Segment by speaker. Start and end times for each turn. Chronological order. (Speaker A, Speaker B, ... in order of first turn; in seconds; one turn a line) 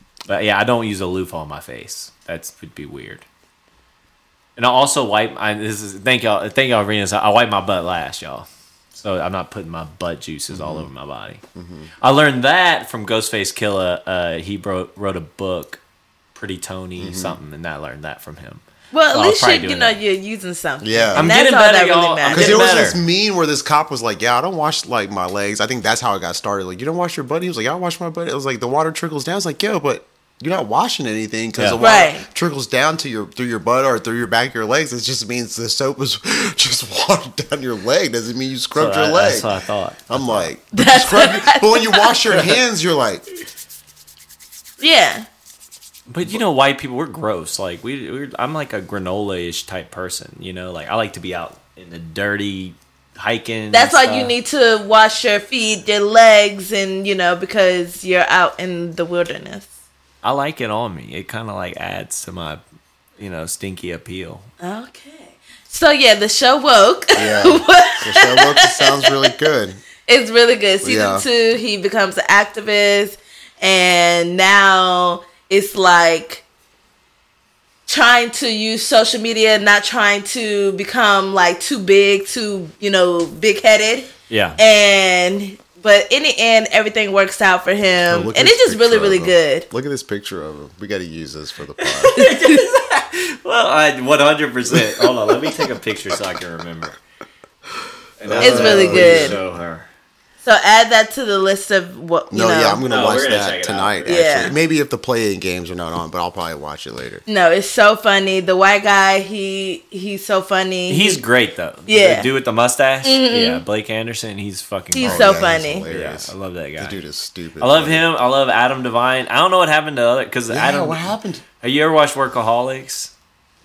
Speaker A: 0.3-3.2
Speaker A: 4.5-11.4
Speaker B: 10.5-10.9
Speaker B: 11.5-11.9
Speaker A: 12.0-15.8
Speaker A: 16.3-20.0
Speaker B: 17.0-17.4
Speaker C: 18.9-22.6
Speaker B: 20.8-21.4
Speaker A: 21.1-23.0
Speaker B: 22.3-39.5
Speaker A: 31.6-31.8
Speaker C: 31.8-32.2
Speaker A: 38.7-40.5
Speaker B: 40.1-43.2
Speaker C: 40.7-42.4
Speaker C: 44.8-45.2
Speaker A: 46.1-54.3
Speaker C: 53.7-59.7
Speaker A: 60.2-62.6
Speaker A: 63.2-64.5
Speaker C: 64.6-69.2
Speaker B: 67.1-69.8
Speaker C: 70.0-76.4
Speaker B: 70.8-71.2
Speaker C: 77.9-89.7
Speaker A: 84.3-84.6
Speaker B: 88.0-92.2
Speaker A: 91.8-97.0
Speaker C: 92.2-92.6
Speaker B: 94.7-95.0
Speaker A: 98.2-99.9
Speaker B: 98.2-99.4
Speaker C: 98.4-99.4
Speaker C: 100.4-102.8
Speaker B: 102.3-107.2
Speaker A: 102.8-104.5
Speaker C: 104.0-104.5
Speaker C: 107.3-111.2
Speaker A: 110.9-117.0
Speaker C: 111.9-112.3
Speaker C: 113.0-113.6
Speaker C: 114.9-115.8
Speaker B: 115.0-118.0
Speaker A: 117.6-123.1
Speaker B: 120.5-121.4